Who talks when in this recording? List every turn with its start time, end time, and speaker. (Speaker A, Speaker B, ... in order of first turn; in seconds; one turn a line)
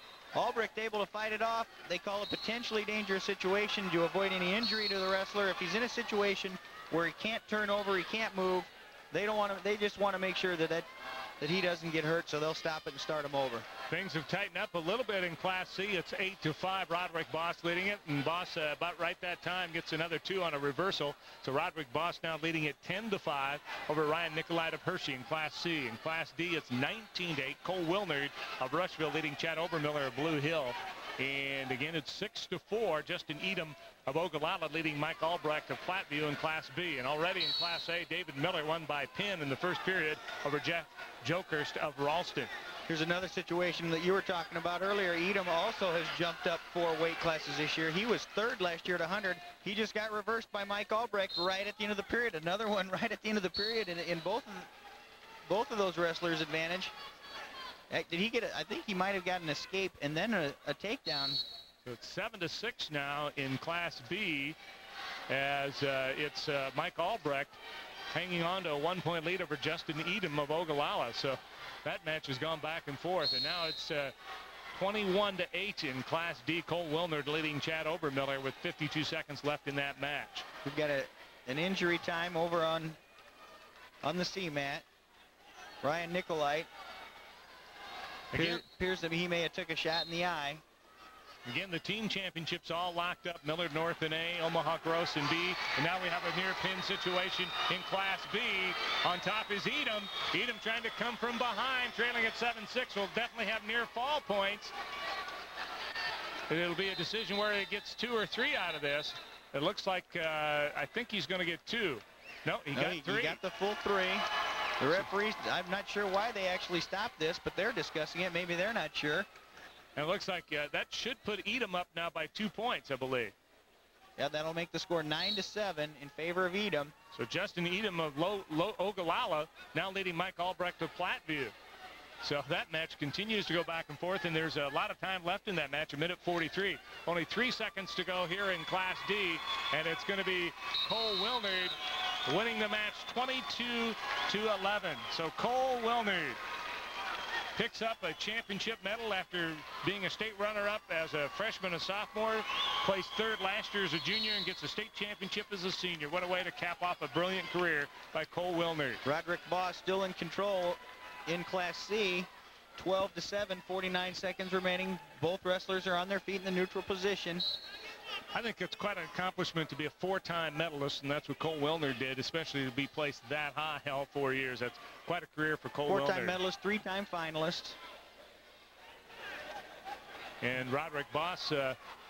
Speaker A: 0.3-10.9
Speaker A: 11.4-13.7
Speaker B: 13.9-42.5
Speaker A: 42.9-54.7
Speaker A: 55.5-56.9
Speaker A: 57.9-61.4
Speaker B: 61.8-64.6
Speaker B: 65.3-67.6
Speaker B: 68.1-74.1
Speaker B: 74.7-80.5
Speaker A: 80.6-83.0
Speaker A: 84.0-84.8
Speaker A: 85.8-86.7
Speaker B: 88.3-88.6
Speaker A: 88.3-90.6
Speaker B: 91.5-104.7
Speaker B: 106.5-113.4
Speaker A: 112.7-114.2
Speaker A: 114.8-119.3
Speaker B: 120.0-123.3
Speaker A: 124.2-126.9
Speaker B: 127.1-131.5
Speaker B: 132.2-146.4
Speaker B: 147.5-159.0
Speaker A: 159.0-167.4
Speaker B: 168.3-176.4
Speaker A: 175.8-177.8
Speaker B: 180.4-181.8